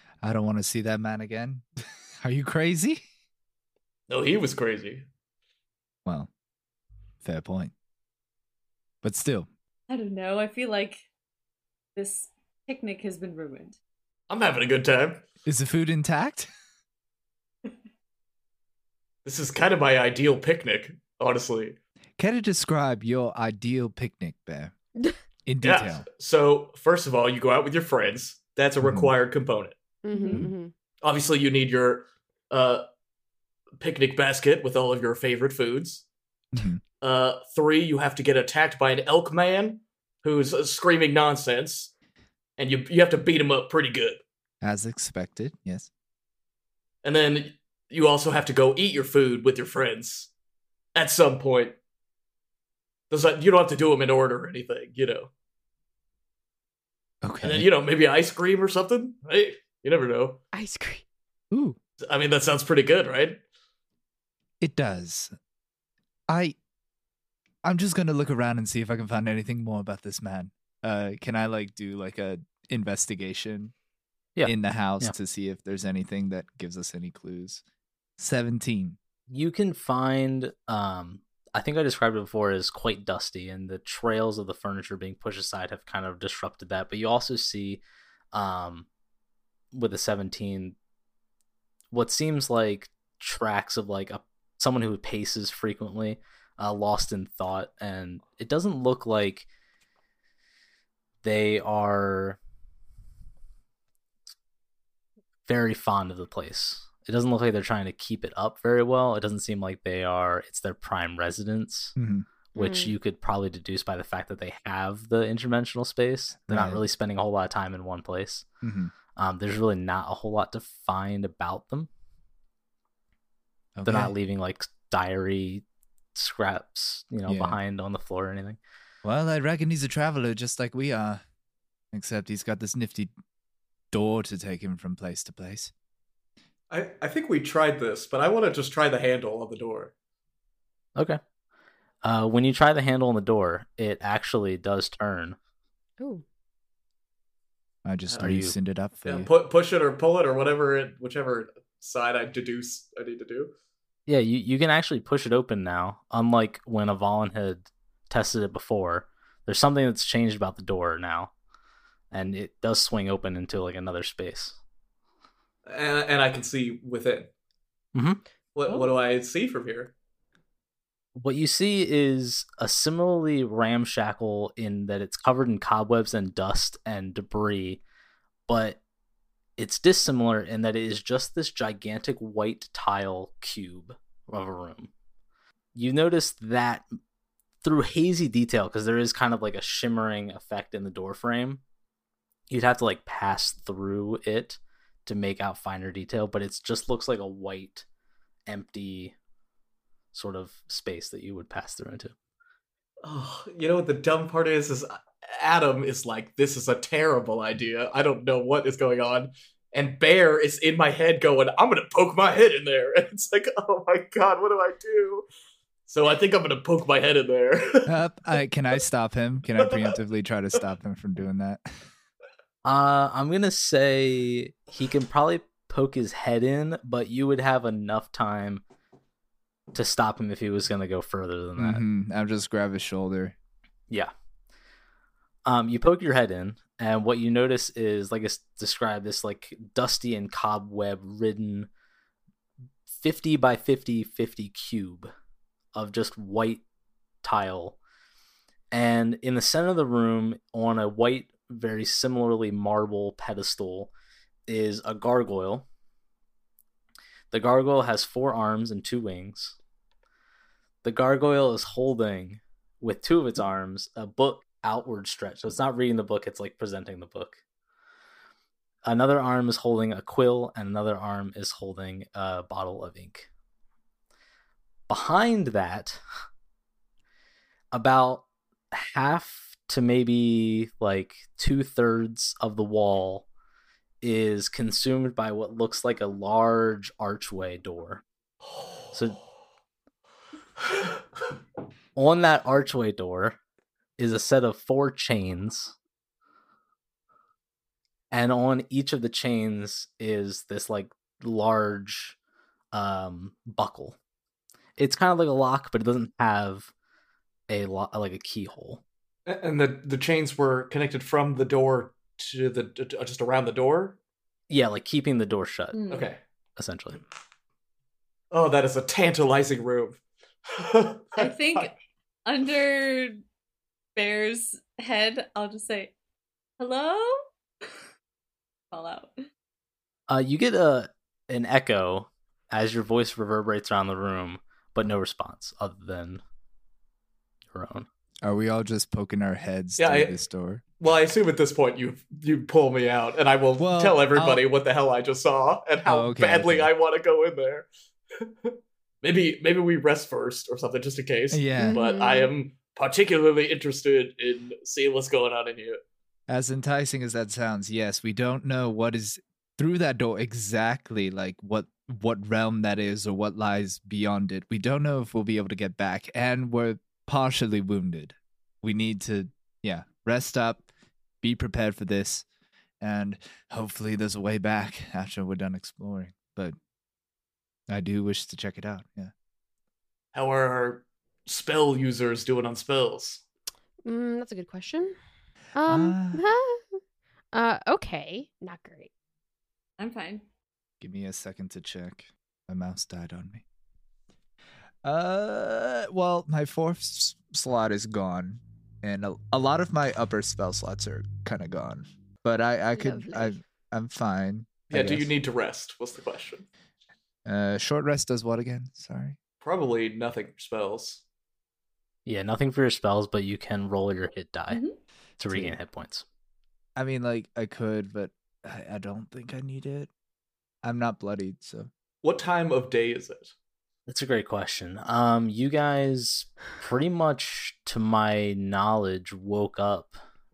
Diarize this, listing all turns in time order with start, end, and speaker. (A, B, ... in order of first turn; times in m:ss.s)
0:00.2-0:01.6 A
0:02.2-0:03.0 A
0:04.1-0:05.0 B
0:06.0-0:06.3 A
0:07.2-0:07.7 A
0:09.0-0:09.5 A
0:09.9-0:11.0 C
0:11.9-0:13.8 C
0:14.3-0:15.2 B
0:15.4-0:16.5 A
0:19.2-0:21.8 B
0:22.2-0:24.7 A
0:25.4-0:26.0 A
0:25.6-0:29.8 B
0:28.8-0:29.1 A
0:30.0-0:30.7 D
0:30.1-0:30.5 C
0:31.0-0:32.8 B
0:33.8-0:36.0 B
0:36.5-0:36.8 A
0:37.0-0:41.9 B
0:42.6-0:44.2 B
0:44.6-0:45.9 A
0:47.0-0:50.3 B
0:50.9-0:51.8 B
0:53.1-0:55.3 B
0:57.2-0:57.7 A
0:57.4-1:00.4 B
1:00.5-1:01.0 D
1:01.5-1:01.8 A
1:02.0-1:03.4 B
1:04.6-1:05.3 A
1:06.3-1:06.6 A
1:07.6-1:13.7 A
1:14.4-1:15.1 E
1:14.4-1:17.6 A
1:18.2-1:19.0 A
1:19.3-1:27.8 E
1:28.3-1:28.8 E
1:29.7-1:30.8 E
1:31.9-1:39.5 E
1:41.2-1:42.4 E
1:45.4-1:52.0 E
1:52.0-1:52.2 A
1:52.5-1:58.4 E
1:52.6-1:52.9 D
1:56.5-1:56.8 A
1:58.6-1:58.9 A
1:59.2-2:01.9 E
2:03.8-2:04.1 A
2:03.8-2:05.6 E
2:06.1-2:08.6 E
2:07.3-2:07.6 A
2:09.0-2:11.2 A
2:11.9-2:13.1 A
2:13.9-2:15.7 A
2:16.7-2:19.9 B
2:22.0-2:25.4 E
2:27.8-2:29.3 A
2:28.2-2:28.5 E
2:29.0-2:33.5 B
2:34.1-2:41.3 E
2:42.1-2:44.6 E
2:45.6-2:47.3 B
2:47.9-2:48.2 E
2:48.5-2:49.9 B
2:51.2-2:57.8 E
2:58.5-2:58.8 E
2:59.6-3:04.9 E
3:05.7-3:06.8 E
3:07.6-3:11.6 E
3:12.5-3:17.8 E
3:18.5-3:19.1 E
3:20.1-3:22.1 E
3:23.0-3:35.2 B
3:35.9-3:37.9 B
3:37.8-3:41.7 A
3:39.6-3:39.9 B
3:42.6-3:48.6 E
3:49.7-3:51.8 E
3:51.6-3:53.3 A
3:55.4-4:01.7 E
4:03.0-4:05.1 E
4:05.7-4:06.6 E
4:07.2-4:07.8 E
4:08.7-4:13.9 E
4:14.5-4:15.6 E
4:17.3-4:19.6 E
4:20.8-4:27.4 E
4:28.8-4:33.3 E
4:34.9-4:36.0 E
4:37.7-4:43.2 E
4:44.0-4:48.0 E
4:48.9-4:49.2 E
4:52.0-4:53.4 E
4:54.0-4:55.7 E
4:58.1-5:02.2 E
5:02.7-5:04.0 E
5:04.8-5:06.7 E
5:07.5-5:08.8 E
5:09.3-5:14.0 B
5:14.5-5:15.8 E
5:15.7-5:16.1 C
5:15.9-5:16.2 B
5:16.6-5:17.0 E
5:18.3-5:20.0 B
5:20.5-5:21.7 B
5:21.2-5:23.2 C
5:24.0-5:25.9 C
5:26.6-5:27.2 C
5:28.7-5:29.1 C
5:30.1-5:36.2 E
5:37.5-5:37.9 E
5:38.2-5:40.6 A
5:39.8-5:40.2 B
5:40.8-5:47.7 B
5:43.6-5:44.4 A
5:45.8-5:46.7 A
5:48.2-5:55.8 B
5:51.3-5:51.8 A
5:51.6-5:52.3 D
5:56.3-6:10.7 A
6:11.2-6:12.2 A
6:12.8-6:16.6 A
6:17.7-6:19.1 A
6:20.1-6:23.2 B
6:23.8-6:24.9 D
6:25.5-6:26.8 D
6:25.6-6:26.2 A
6:27.3-6:28.9 D
6:29.8-6:30.2 C
6:30.8-6:33.4 A
6:34.8-6:45.1 A
6:42.7-6:43.4 D
6:44.7-6:46.4 B
6:47.2-6:49.2 A
6:49.4-6:51.0 B
6:52.0-6:54.6 E
6:54.5-6:54.8 C
6:55.2-6:56.0 E
6:55.3-6:55.6 A
6:56.8-6:59.9 A
7:00.6-7:01.7 A
7:02.0-7:03.3 B
7:03.9-7:10.0 E